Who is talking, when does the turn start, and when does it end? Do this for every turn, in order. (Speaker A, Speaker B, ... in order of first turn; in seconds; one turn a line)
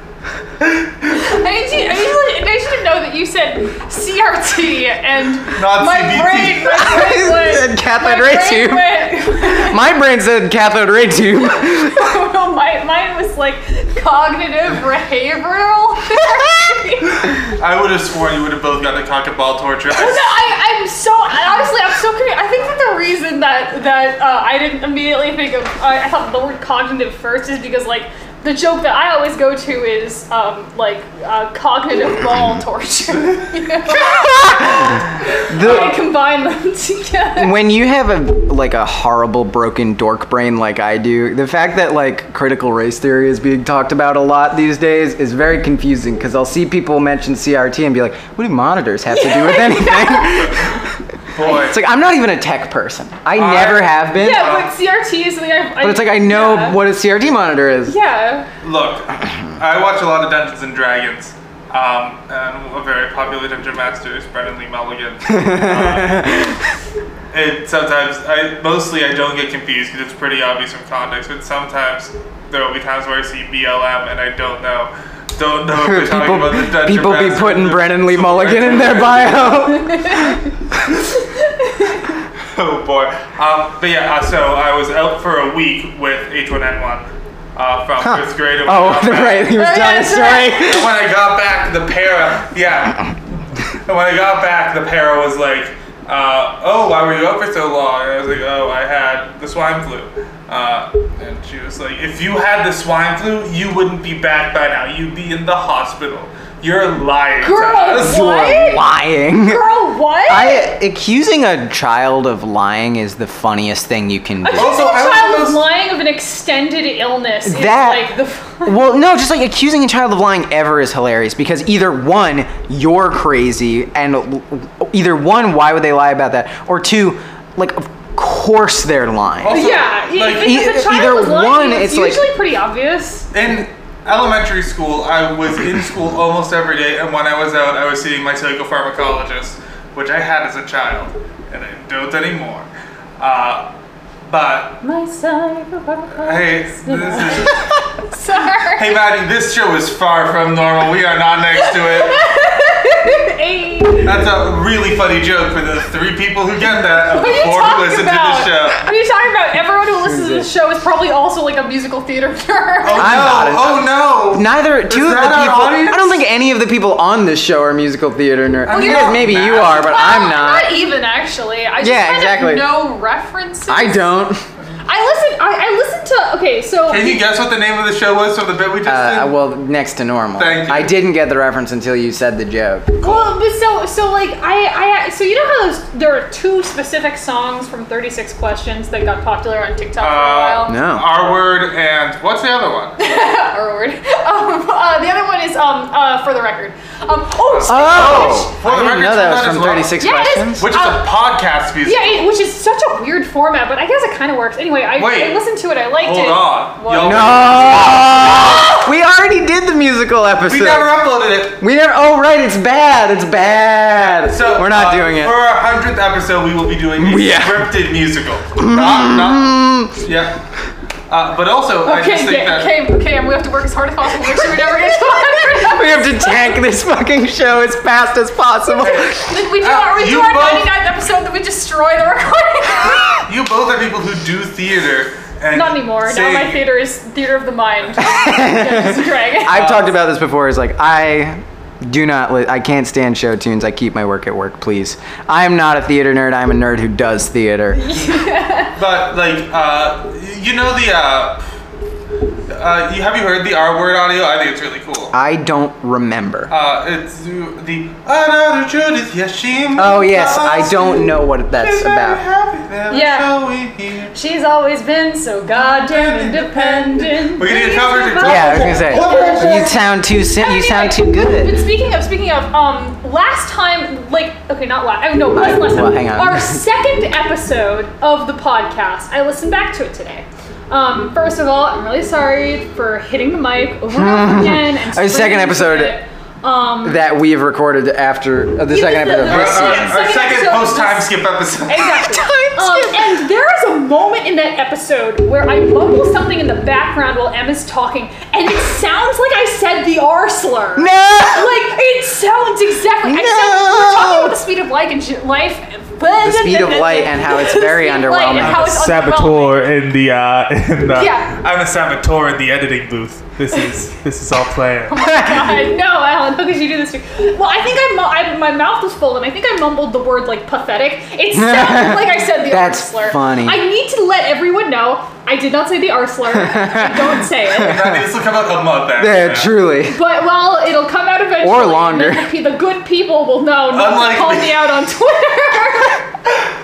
Speaker A: 1.1-9.8
Speaker B: 5.5-6.8
Speaker C: 6.7-12.1
Speaker A: 11.4-17.3
Speaker B: 17.4-20.3
Speaker A: 19.9-37.5
Speaker C: 33.9-36.0
Speaker B: 35.6-35.9
Speaker C: 37.4-54.6
Speaker A: 49.1-50.6
Speaker B: 51.4-51.8
Speaker B: 53.4-54.7
Speaker A: 54.2-56.8
Speaker C: 55.8-57.9
Speaker A: 57.9-58.5
Speaker B: 58.6-66.4
Speaker C: 65.3-66.8
Speaker B: 67.3-79.5
Speaker C: 75.8-80.4
Speaker A: 79.7-80.5
Speaker A: 81.2-82.2
Speaker B: 82.5-89.6
Speaker C: 88.0-90.9
Speaker A: 89.5-90.6
Speaker B: 90.6-93.2
Speaker B: 93.9-108.2
Speaker A: 107.4-108.9
Speaker C: 108.0-109.6
Speaker A: 109.4-110.7
Speaker C: 110.3-114.8
Speaker A: 114.4-118.9
Speaker B: 114.5-115.6
Speaker C: 117.4-118.1
Speaker C: 118.6-129.7
Speaker B: 129.4-130.6
Speaker A: 129.5-133.3
Speaker C: 130.4-132.2
Speaker B: 133.3-142.7
Speaker B: 143.2-143.7
Speaker B: 144.3-144.8
Speaker A: 144.8-148.9
Speaker B: 146.2-147.7
Speaker B: 148.8-152.2
Speaker A: 151.6-154.1
Speaker B: 154.0-158.8
Speaker A: 157.1-163.2
Speaker C: 160.0-160.5
Speaker B: 162.8-166.2
Speaker C: 163.0-170.8
Speaker B: 168.7-170.1
Speaker A: 168.7-174.3
Speaker C: 171.8-172.8
Speaker C: 173.7-174.4
Speaker A: 174.9-177.2
Speaker B: 176.9-179.4
Speaker C: 178.9-182.9
Speaker B: 180.4-180.9
Speaker A: 183.0-190.8
Speaker B: 183.0-183.4
Speaker B: 190.0-193.0
Speaker C: 190.7-191.1
Speaker A: 193.0-198.5
Speaker B: 197.5-200.0
Speaker C: 197.7-200.7
Speaker A: 200.0-201.1
Speaker B: 200.6-202.3
Speaker A: 201.8-208.9
Speaker B: 205.0-205.4
Speaker B: 206.0-208.1
Speaker C: 207.0-211.0
Speaker B: 210.5-211.6
Speaker C: 211.6-215.4
Speaker B: 214.0-220.4
Speaker C: 217.0-217.7
Speaker C: 218.6-220.0
Speaker B: 221.1-222.8
Speaker A: 221.8-226.6
Speaker C: 225.5-229.2
Speaker A: 228.7-233.2
Speaker B: 228.8-229.1
Speaker B: 229.6-230.7
Speaker B: 233.3-236.7
Speaker A: 235.5-239.6
Speaker C: 238.0-248.1
Speaker B: 239.5-240.0
Speaker A: 247.7-248.7
Speaker B: 248.7-251.4
Speaker B: 252.5-255.1
Speaker C: 255.1-256.5
Speaker B: 256.5-264.1
Speaker C: 259.8-262.2
Speaker A: 262.9-263.4
Speaker A: 264.1-287.0
Speaker B: 265.5-269.8
Speaker C: 268.2-271.6
Speaker C: 275.3-276.6
Speaker C: 283.9-286.0
Speaker C: 286.8-290.0
Speaker A: 288.7-291.1
Speaker B: 289.3-291.9
Speaker A: 291.7-309.6
Speaker C: 291.9-293.2
Speaker C: 300.8-301.6
Speaker C: 303.1-304.4
Speaker C: 306.2-308.8
Speaker B: 308.4-314.9
Speaker A: 310.9-311.4
Speaker A: 314.9-327.8
Speaker C: 321.3-323.6
Speaker C: 326.3-328.1
Speaker B: 327.6-329.6
Speaker C: 329.0-330.0
Speaker A: 329.9-336.1
Speaker C: 331.4-332.3
Speaker B: 333.7-334.6